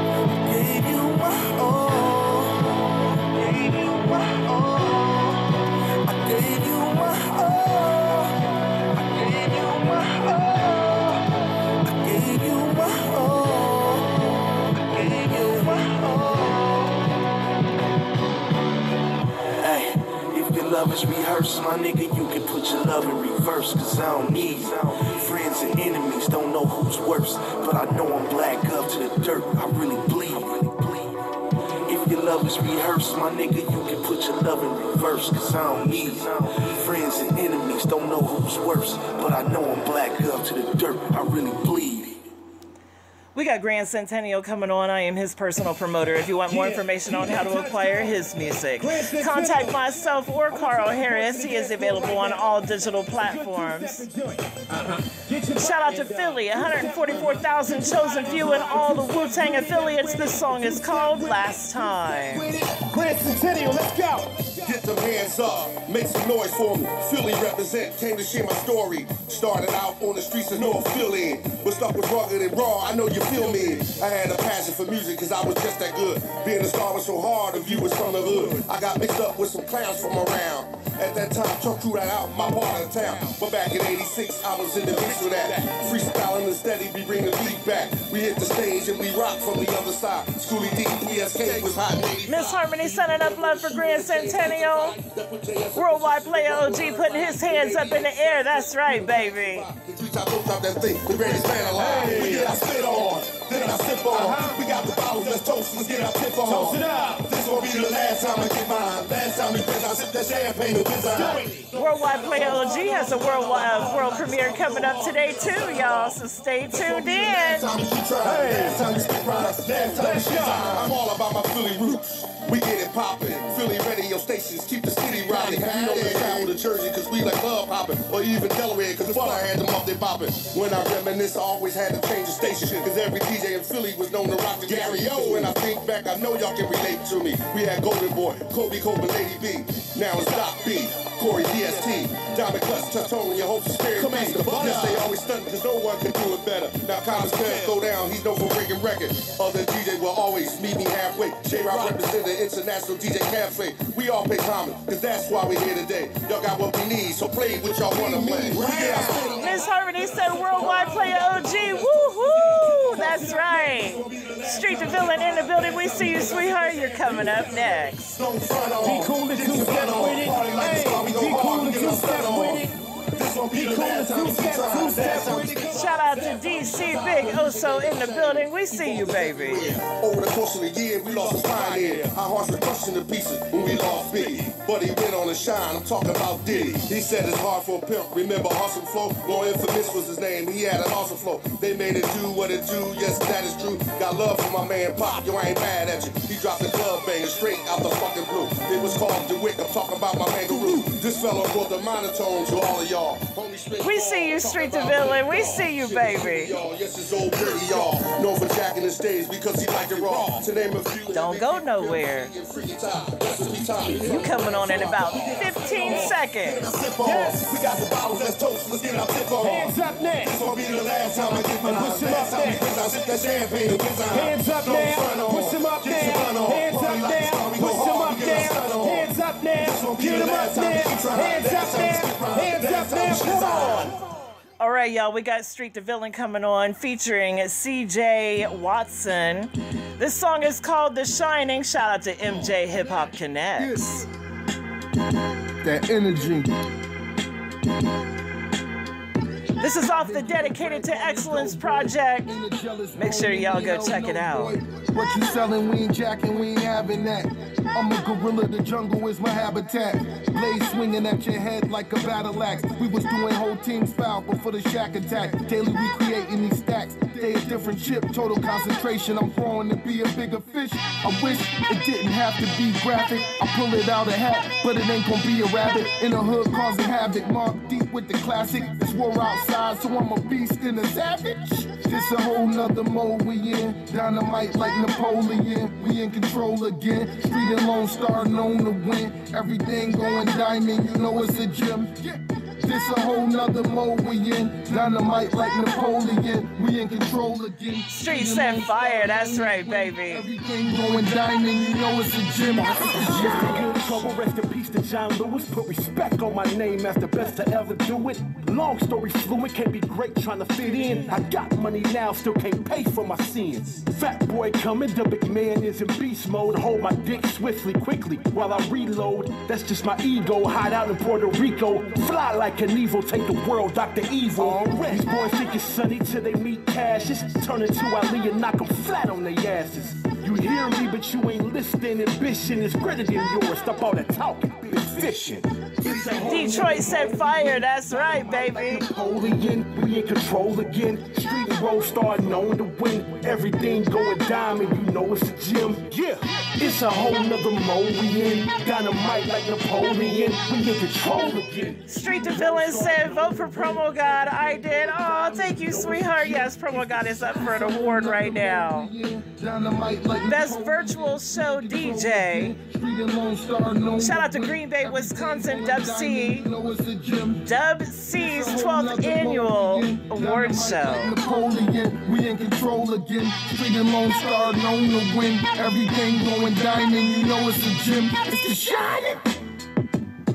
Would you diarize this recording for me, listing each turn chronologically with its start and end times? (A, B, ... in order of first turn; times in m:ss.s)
0:00.4-0:05.4 A
0:06.0-0:08.4 A
0:09.0-0:11.2 A
0:12.0-0:14.3 A
0:14.9-0:16.8 A
0:19.6-0:31.1 A
0:31.9-0:42.2 A
0:43.4-0:54.1 B
0:53.6-0:54.6 C
0:55.6-1:02.5 B
1:02.8-1:04.2 D
1:04.6-1:51.6 E
1:32.3-1:35.0 B
1:35.8-1:39.7 B
1:41.8-1:42.5 D
1:44.2-1:44.5 D
1:46.5-1:47.0 D
1:51.8-1:57.7 B
1:54.4-1:56.1 E
1:56.7-2:39.5 E
1:58.2-1:58.8 D
2:00.0-2:00.4 D
2:05.7-2:06.3 F
2:39.4-2:48.2 B
2:43.3-3:53.9 E
2:49.1-2:50.9 C
2:51.5-2:52.0 C
2:53.8-2:55.3 C
2:55.7-2:59.8 B
3:23.8-3:26.6 B
3:31.1-3:32.3 B
3:34.0-3:36.7 B
3:39.4-3:40.3 C
3:41.7-3:42.5 C
3:44.1-3:49.7 C
3:51.1-3:53.4 D
3:53.6-3:53.8 B
3:54.6-4:03.8 B
4:03.6-4:04.1 F
4:05.6-4:06.5 F
4:09.6-4:12.3 B
4:09.8-5:03.7 F
4:13.0-4:14.5 B
4:57.9-5:00.2 B
5:02.9-5:37.3 C
5:36.0-5:36.4 F
5:36.2-5:38.8 B
5:38.2-5:52.2 C
5:51.9-5:58.9 B
5:52.2-6:07.4 F
6:00.2-6:02.6 B
6:04.0-6:06.5 B
6:07.4-6:11.1 B
6:08.1-6:19.2 F